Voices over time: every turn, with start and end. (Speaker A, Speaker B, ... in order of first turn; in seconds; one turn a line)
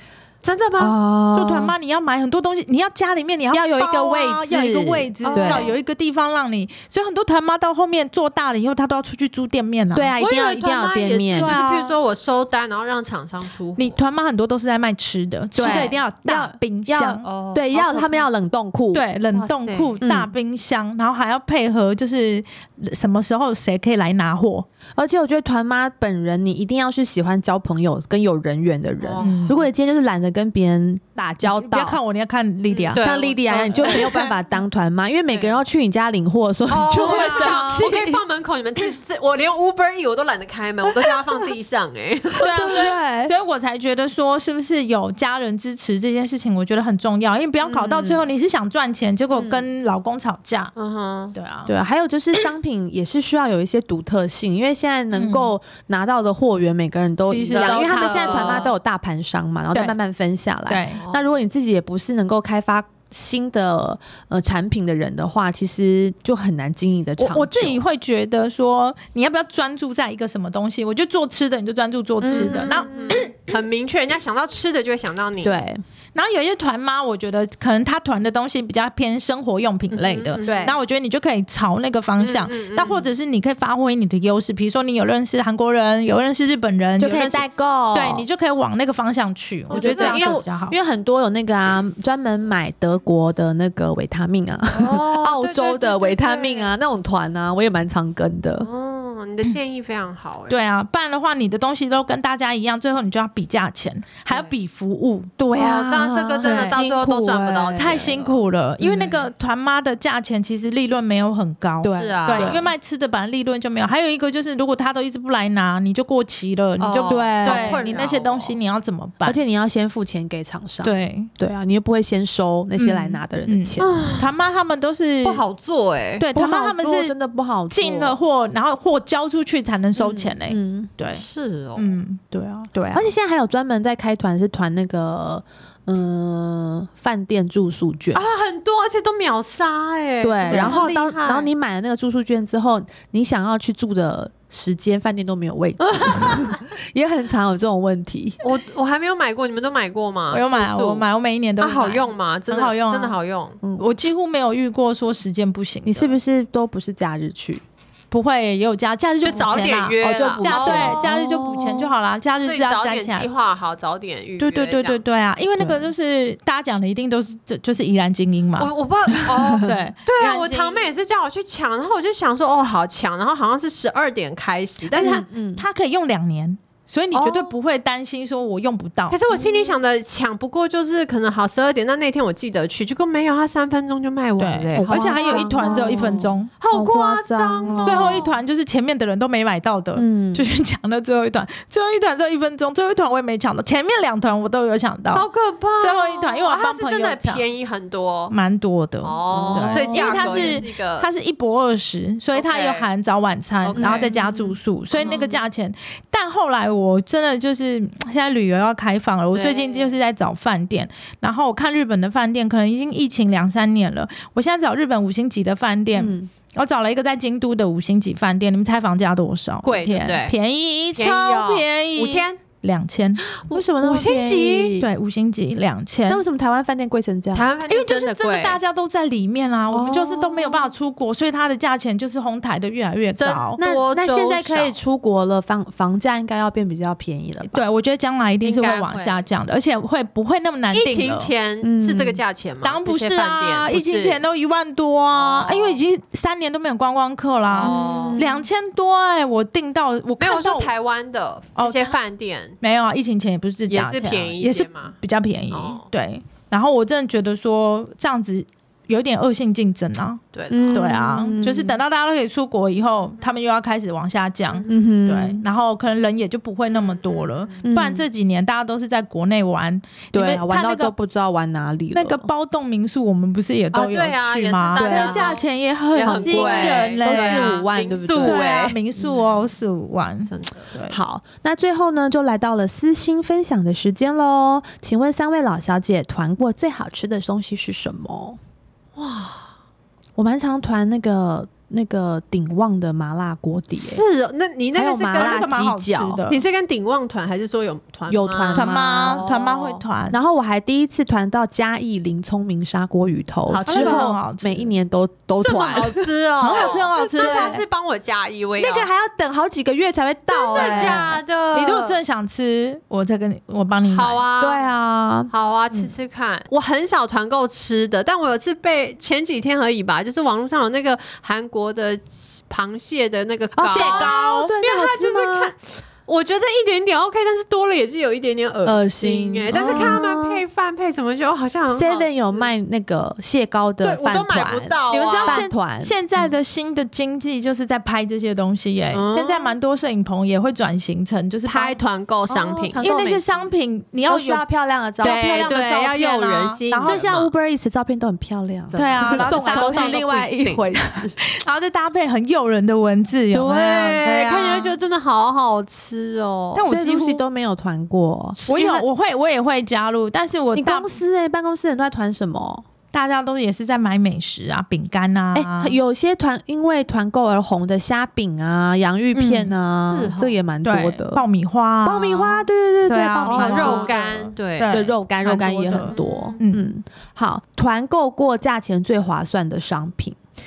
Speaker A: 0.4-0.9
Speaker B: 0.8-1.8
Speaker C: 1.3-10.1
Speaker B: 3.5-5.7
Speaker A: 5.2-5.8
Speaker B: 9.9-11.6
Speaker A: 10.2-14.0
Speaker C: 11.3-12.0
Speaker C: 13.8-17.3
Speaker B: 15.5-19.0
Speaker A: 15.6-16.0
Speaker A: 17.2-18.3
Speaker C: 18.9-24.7
Speaker A: 19.3-20.0
Speaker B: 20.0-20.3
Speaker B: 25.0-32.0
Speaker A: 29.0-29.6
Speaker C: 29.2-29.6
Speaker C: 31.4-34.3
Speaker A: 32.7-34.1
Speaker B: 33.0-38.2
Speaker A: 35.3-35.6
Speaker A: 36.7-42.9
Speaker C: 37.0-37.8
Speaker B: 41.0-41.3
Speaker B: 42.4-43.3
Speaker C: 42.4-50.7
Speaker B: 47.6-48.2
Speaker B: 49.4-49.7
Speaker A: 50.8-51.4
Speaker C: 51.3-51.7
Speaker B: 51.7-67.8
Speaker C: 55.1-55.5
Speaker C: 57.3-58.7
Speaker A: 57.3-58.7
Speaker C: 60.7-61.0
Speaker A: 61.0-61.4
Speaker C: 67.2-73.3
Speaker B: 72.2-73.2
Speaker A: 72.3-75.6
Speaker B: 75.4-75.8
Speaker C: 76.2-90.8
Speaker A: 79.9-80.7
Speaker B: 80.4-80.8
Speaker A: 82.2-83.1
Speaker B: 87.0-88.3
Speaker A: 89.7-90.4
Speaker B: 89.7-98.7
Speaker A: 94.7-96.7
Speaker A: 98.6-100.6
Speaker C: 100.5-105.4
Speaker B: 105.4-108.0
Speaker A: 105.5-108.4
Speaker C: 106.4-106.8
Speaker C: 107.8-119.4
Speaker B: 108.8-109.1
Speaker B: 111.8-112.7
Speaker A: 111.9-112.6
Speaker A: 116.8-118.6
Speaker B: 117.0-118.1
Speaker B: 119.2-124.0
Speaker C: 120.8-121.3
Speaker C: 122.8-125.4
Speaker A: 123.8-124.3
Speaker A: 125.2-126.3
Speaker C: 126.2-127.2
Speaker B: 126.3-128.2
Speaker C: 127.7-131.2
Speaker B: 130.0-130.9
Speaker A: 131.1-132.0
Speaker C: 131.8-132.2
Speaker B: 132.3-138.2
Speaker C: 132.7-133.1
Speaker A: 138.1-141.5
Speaker B: 140.2-148.4
Speaker C: 140.5-140.9
Speaker A: 145.9-146.6
Speaker A: 148.4-151.1
Speaker C: 150.3-153.2
Speaker A: 151.6-153.6
Speaker B: 153.6-153.9
Speaker C: 153.8-156.2
Speaker B: 155.9-157.6
Speaker C: 158.1-163.3
Speaker A: 159.2-161.1
Speaker B: 159.3-161.9
Speaker A: 162.4-165.0
Speaker C: 164.4-168.7
Speaker B: 165.6-165.9
Speaker A: 168.6-175.2
Speaker B: 169.3-169.8
Speaker C: 169.6-170.9
Speaker B: 174.9-175.6
Speaker C: 175.0-179.2
Speaker A: 179.1-188.4
Speaker B: 179.3-179.7
Speaker C: 184.4-186.5
Speaker B: 184.8-188.2
Speaker C: 187.8-195.3
Speaker B: 189.9-190.5
Speaker A: 195.1-198.3
Speaker C: 195.8-197.4
Speaker C: 198.3-223.2
Speaker A: 199.0-201.1
Speaker B: 199.3-200.7
Speaker A: 202.3-202.9
Speaker A: 203.6-204.3
Speaker B: 203.8-204.4
Speaker A: 204.9-205.4
Speaker A: 209.3-209.9
Speaker B: 215.9-216.3
Speaker A: 219.6-220.4
Speaker A: 220.9-222.4
Speaker A: 223.3-224.8
Speaker B: 223.5-224.9
Speaker C: 224.8-226.2
Speaker B: 226.1-227.5
Speaker A: 227.3-228.6
Speaker C: 227.7-233.6
Speaker B: 229.7-230.7
Speaker A: 233.2-234.8
Speaker B: 233.6-237.7
Speaker C: 237.4-241.3
Speaker A: 238.4-239.2
Speaker A: 240.7-244.2
Speaker B: 241.6-242.2
Speaker C: 242.6-250.7
Speaker A: 245.1-245.8
Speaker A: 247.5-248.2
Speaker B: 247.6-248.4
Speaker A: 250.2-252.6
Speaker C: 251.6-251.9
Speaker C: 252.6-260.2
Speaker A: 253.7-255.0
Speaker A: 255.5-255.9
Speaker A: 260.3-260.9
Speaker B: 260.5-261.8
Speaker C: 260.7-270.9
Speaker B: 264.7-265.4
Speaker A: 266.8-267.6
Speaker B: 267.6-268.1
Speaker B: 270.1-272.3
Speaker C: 271.9-277.7
Speaker A: 273.7-278.8
Speaker B: 274.8-275.4
Speaker B: 276.1-279.1
Speaker C: 278.2-281.0
Speaker A: 280.3-280.7
Speaker B: 280.9-288.4
Speaker A: 289.0-289.5
Speaker B: 290.2-294.0
Speaker A: 293.8-295.5
Speaker B: 294.8-296.2
Speaker C: 295.1-296.4
Speaker A: 296.3-299.8
Speaker B: 298.1-299.3
Speaker C: 298.6-300.2
Speaker B: 300.1-307.6
Speaker A: 303.5-304.1
Speaker C: 303.7-304.7
Speaker A: 305.4-308.9
Speaker C: 306.4-307.6
Speaker B: 308.6-311.2
Speaker A: 310.3-312.0
Speaker C: 310.5-314.2
Speaker A: 313.9-314.7
Speaker B: 314.4-315.3
Speaker A: 315.3-332.5
Speaker B: 323.6-325.5
Speaker C: 323.7-324.5
Speaker B: 328.6-330.4
Speaker C: 329.5-330.0
Speaker B: 331.7-335.9
Speaker A: 333.8-335.4
Speaker C: 334.9-341.8
Speaker A: 338.9-339.6
Speaker A: 341.5-342.8
Speaker B: 342.3-343.2
Speaker C: 342.8-344.4
Speaker B: 344.1-345.5
Speaker C: 345.0-347.0
Speaker A: 345.0-347.3
Speaker B: 346.8-351.2
Speaker A: 348.7-350.7
Speaker C: 348.8-350.0
Speaker C: 351.2-354.8
Speaker A: 353.3-356.7
Speaker C: 356.6-357.2
Speaker B: 356.7-358.4
Speaker A: 358.4-358.9
Speaker C: 358.5-361.0
Speaker B: 360.6-362.6
Speaker C: 362.9-365.8
Speaker B: 365.3-371.2
Speaker C: 369.1-369.5
Speaker A: 369.9-370.4
Speaker C: 370.6-376.7
Speaker B: 371.9-374.0
Speaker A: 373.3-374.8
Speaker B: 374.7-380.2
Speaker A: 375.8-376.4